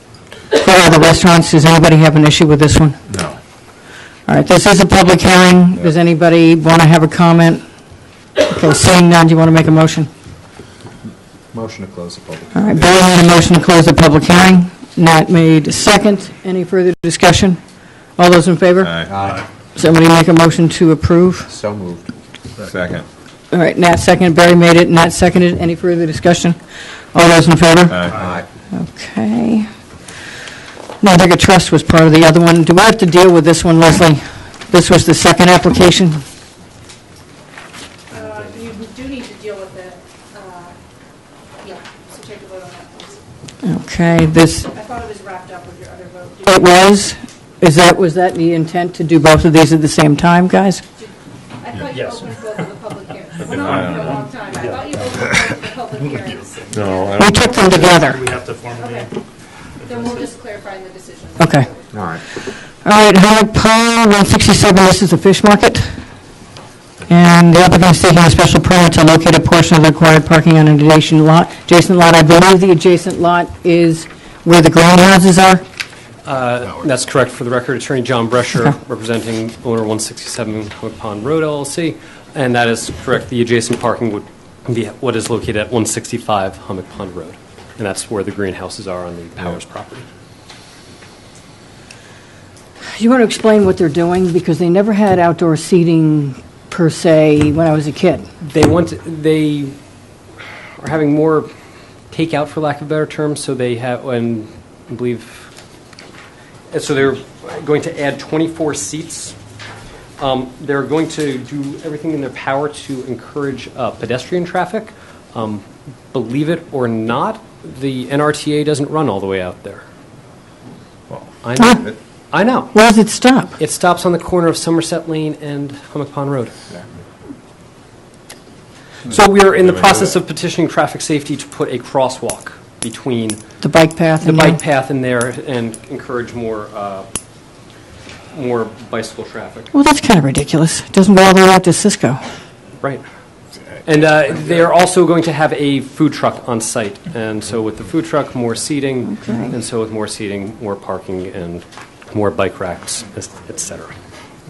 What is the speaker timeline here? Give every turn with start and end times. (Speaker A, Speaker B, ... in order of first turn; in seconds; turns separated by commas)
Speaker A: 0.6-3.0, Speaker A: 4.3-7.6, Speaker A: 8.4-10.1, Speaker B: 11.5-12.7, Speaker A: 12.6-17.6, Speaker A: 18.2-19.0, Speaker C: 18.9-19.1, Speaker B: 19.0-19.4, Speaker A: 19.8-21.5, Speaker B: 21.5-22.1, Speaker B: 22.6-23.0, Speaker A: 23.5-26.6, Speaker A: 27.1-28.1, Speaker C: 27.9-28.4, Speaker B: 28.1-28.5, Speaker A: 28.7-29.7, Speaker A: 31.0-36.2, Speaker D: 38.1-40.8, Speaker D: 41.6-43.2, Speaker A: 43.6-44.7, Speaker D: 44.6-47.1, Speaker A: 46.5-50.8, Speaker D: 51.0-57.3, Speaker C: 53.5-54.3, Speaker C: 56.7-57.7, Speaker A: 57.2-58.2, Speaker C: 58.2-58.9, Speaker D: 58.7-59.1, Speaker D: 59.8-61.9, Speaker A: 61.4-61.7, Speaker B: 61.9-62.2, Speaker A: 62.8-66.0, Speaker A: 67.1-75.6, Speaker E: 76.2-90.1, Speaker A: 92.9-98.3, Speaker E: 98.4-99.8, Speaker E: 100.8-101.5, Speaker E: 102.1-105.5, Speaker E: 106.7-109.3, Speaker E: 110.2-119.8, Speaker B: 121.1-122.0, Speaker E: 121.4-122.7, Speaker A: 121.6-121.8, Speaker A: 122.7-123.6, Speaker E: 123.6-126.5, Speaker E: 129.1-133.4, Speaker A: 133.6-134.6, Speaker E: 134.2-137.1, Speaker E: 138.3-139.7, Speaker A: 139.7-142.2, Speaker E: 143.8-153.9, Speaker A: 149.1-149.5